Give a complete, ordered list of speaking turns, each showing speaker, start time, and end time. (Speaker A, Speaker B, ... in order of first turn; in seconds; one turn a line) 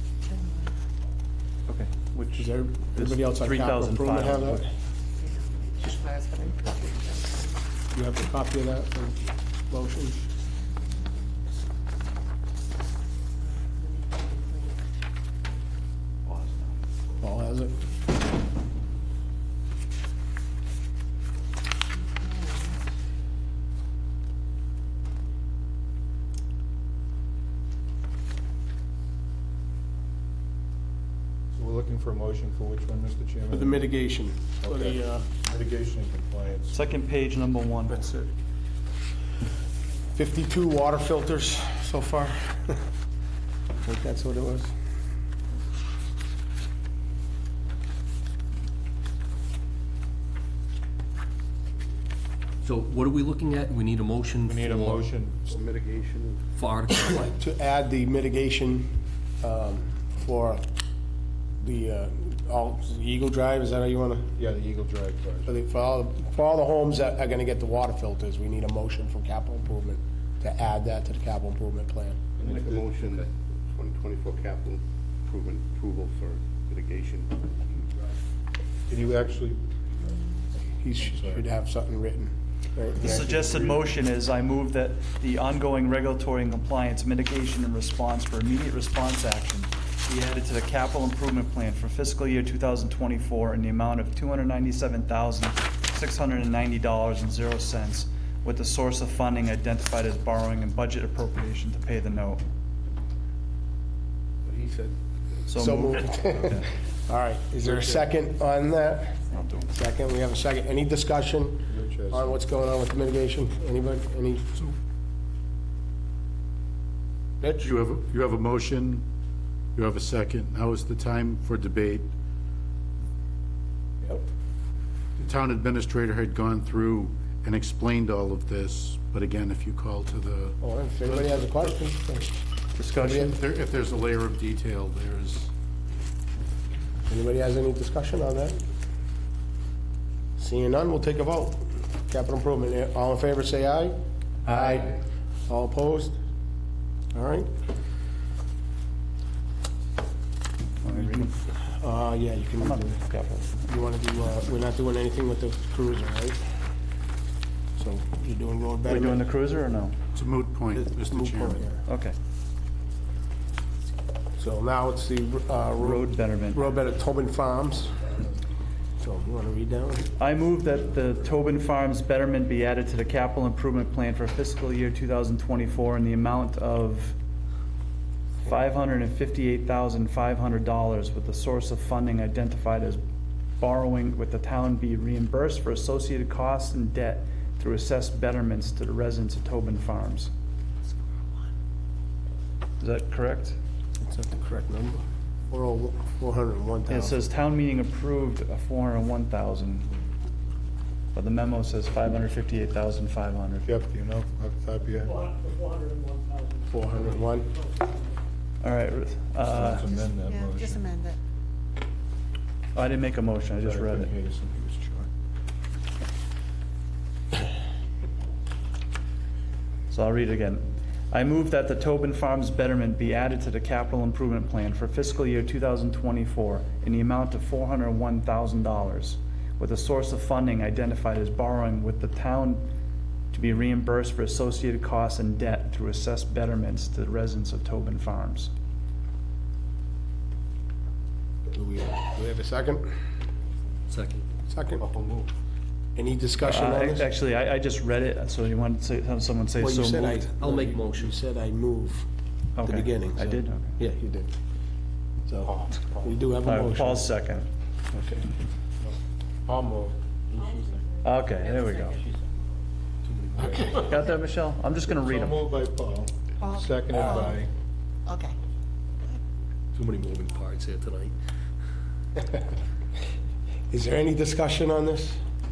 Speaker A: 0.3-0.7
Speaker B: 1.7-4.7
Speaker C: 2.4-4.7
Speaker A: 5.2-7.5
Speaker C: 7.9-10.3
Speaker A: 13.5-14.8
Speaker B: 16.3-16.8
Speaker C: 17.2-17.8
Speaker A: 22.0-22.8
Speaker D: 31.5-33.6
Speaker C: 33.5-35.3
Speaker D: 35.4-36.7
Speaker B: 36.7-38.0
Speaker C: 38.0-38.3
Speaker C: 40.1-42.8
Speaker C: 43.8-44.7
Speaker E: 52.6-55.2
Speaker D: 54.5-55.5
Speaker F: 55.5-56.4
Speaker E: 56.5-57.4
Speaker C: 57.2-60.7
Speaker C: 61.6-64.3
Speaker D: 64.4-65.5
Speaker C: 65.5-72.2
Speaker F: 72.4-77.5
Speaker D: 72.4-72.8
Speaker D: 78.9-79.6
Speaker C: 80.7-83.4
Speaker D: 81.2-81.4
Speaker B: 83.0-102.4
Speaker F: 104.5-104.9
Speaker B: 105.5-106.7
Speaker C: 105.6-114.5
Speaker B: 109.3-109.7
Speaker D: 111.7-112.2
Speaker G: 117.6-119.1
Speaker G: 119.8-122.1
Speaker G: 125.2-130.6
Speaker C: 130.6-132.4
Speaker B: 132.8-133.3
Speaker C: 133.0-133.3
Speaker G: 133.4-135.5
Speaker C: 137.1-138.6
Speaker C: 140.4-146.2
Speaker C: 147.1-147.5
Speaker B: 150.8-151.4
Speaker C: 151.7-153.0
Speaker B: 152.6-153.6
Speaker C: 153.6-156.6
Speaker C: 157.8-159.2
Speaker B: 158.9-159.9
Speaker G: 160.1-161.6
Speaker C: 160.7-161.8
Speaker B: 161.8-162.2
Speaker C: 164.4-168.2
Speaker B: 165.8-166.8
Speaker C: 169.0-170.1
Speaker B: 170.2-177.2
Speaker B: 178.4-183.0
Speaker B: 183.6-190.3
Speaker B: 192.8-193.6
Speaker C: 194.0-197.2
Speaker B: 196.9-200.0
Speaker B: 201.2-203.7
Speaker D: 203.7-205.1
Speaker C: 206.7-207.5
Speaker B: 208.6-209.9
Speaker D: 209.6-210.7
Speaker A: 209.8-211.2
Speaker B: 212.8-214.1
Speaker D: 213.9-214.8
Speaker G: 214.8-215.1
Speaker B: 219.9-232.7
Speaker B: 233.3-238.5
Speaker C: 241.5-242.9
Speaker E: 243.9-244.3
Speaker C: 244.4-244.9
Speaker C: 246.0-247.1
Speaker B: 246.4-250.3
Speaker C: 249.6-252.1
Speaker E: 250.4-251.1
Speaker B: 252.6-253.7
Speaker C: 252.6-254.3
Speaker C: 255.3-257.1
Speaker B: 256.4-257.5
Speaker C: 257.9-258.2
Speaker C: 260.4-260.7
Speaker B: 261.0-262.0
Speaker E: 263.1-264.0
Speaker B: 263.7-265.5
Speaker D: 265.1-267.5
Speaker A: 266.4-267.5
Speaker A: 268.1-268.4
Speaker E: 269.8-271.1
Speaker C: 273.7-275.2